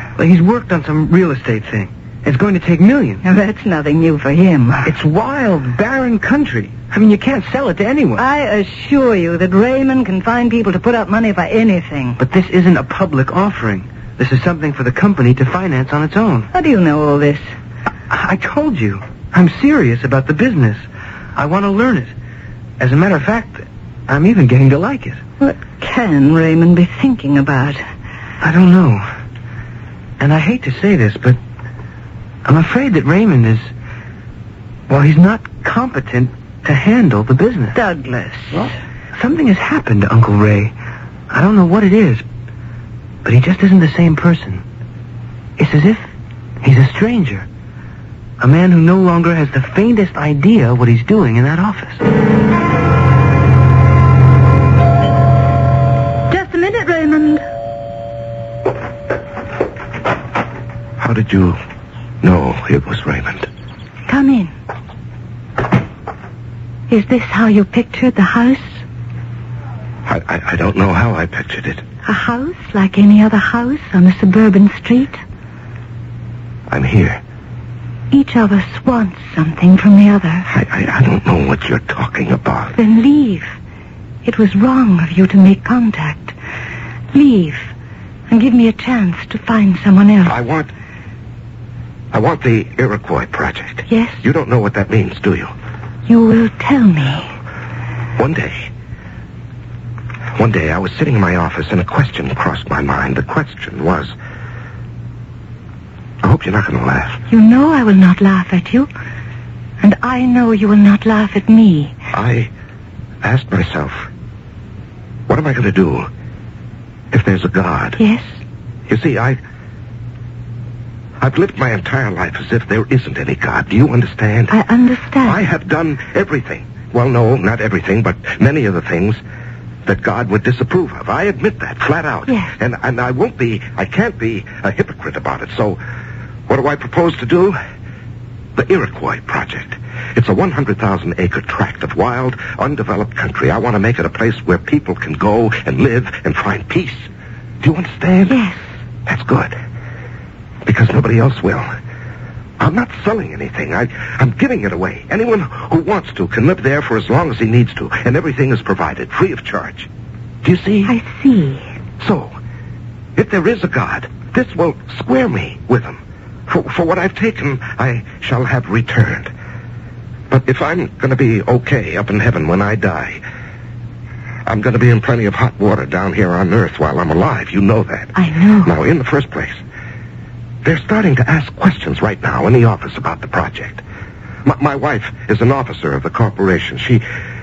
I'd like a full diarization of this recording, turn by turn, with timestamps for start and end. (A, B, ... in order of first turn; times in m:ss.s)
0:00.2-0:03.2 A
0:03.2-0:04.9 B
0:04.8-0:08.2 A
0:08.2-0:12.2 B
0:12.2-0:16.5 A
0:16.5-0:17.4 B
0:18.1-0:20.8 A
0:21.4-0:22.1 A
0:22.8-0:25.2 A
0:25.4-0:27.8 B
0:28.4-0:29.0 A
0:30.2-0:31.4 A
0:32.4-0:33.7 A
0:34.9-0:37.8 A
0:37.7-0:38.7 B
0:38.5-0:40.7 A
0:41.3-0:42.2 A
0:43.2-0:44.6 A
0:45.6-0:46.0 A
0:46.6-0:47.5 A
0:48.4-0:52.0 A
0:56.3-0:57.4 B
1:01.0-1:01.6 C
1:02.2-1:03.5 C
1:04.1-1:04.5 B
1:06.9-1:08.8 B
1:10.0-1:11.8 C
1:12.0-1:15.2 B
1:16.7-1:17.2 C
1:18.1-1:20.5 B
1:20.4-1:22.8 C
1:22.8-1:23.5 B
1:24.2-1:26.4 B
1:27.1-1:27.7 B
1:28.3-1:30.4 B
1:30.2-1:30.7 C
1:32.1-1:35.5 C
1:33.9-1:34.2 B
1:36.1-1:37.3 B
1:38.2-1:38.7 C
1:40.4-1:44.1 C
1:46.2-1:47.2 C
1:47.3-1:48.9 B
1:49.8-1:51.9 B
1:52.1-1:52.5 C
1:53.2-1:54.1 C
1:55.3-1:56.1 C
1:57.1-1:58.0 C
1:58.0-1:58.4 B
1:58.9-1:59.4 C
2:01.2-2:04.6 C
2:04.5-2:05.4 B
2:05.2-2:09.2 C
2:09.8-2:15.8 C
2:12.3-2:12.6 B
2:16.5-2:17.6 C
2:18.6-2:27.1 C
2:27.6-2:28.4 C
2:28.3-2:28.6 B
2:29.0-2:29.6 C
2:30.6-2:31.7 C
2:32.6-2:39.9 C
2:40.4-2:41.0 C
2:40.8-2:41.6 B
2:42.0-2:42.3 C
2:43.2-2:49.3 C
2:50.3-2:53.2 C
2:54.4-2:59.6 C
2:58.1-2:58.7 B
3:00.6-3:03.8 C
3:04.4-3:07.0 C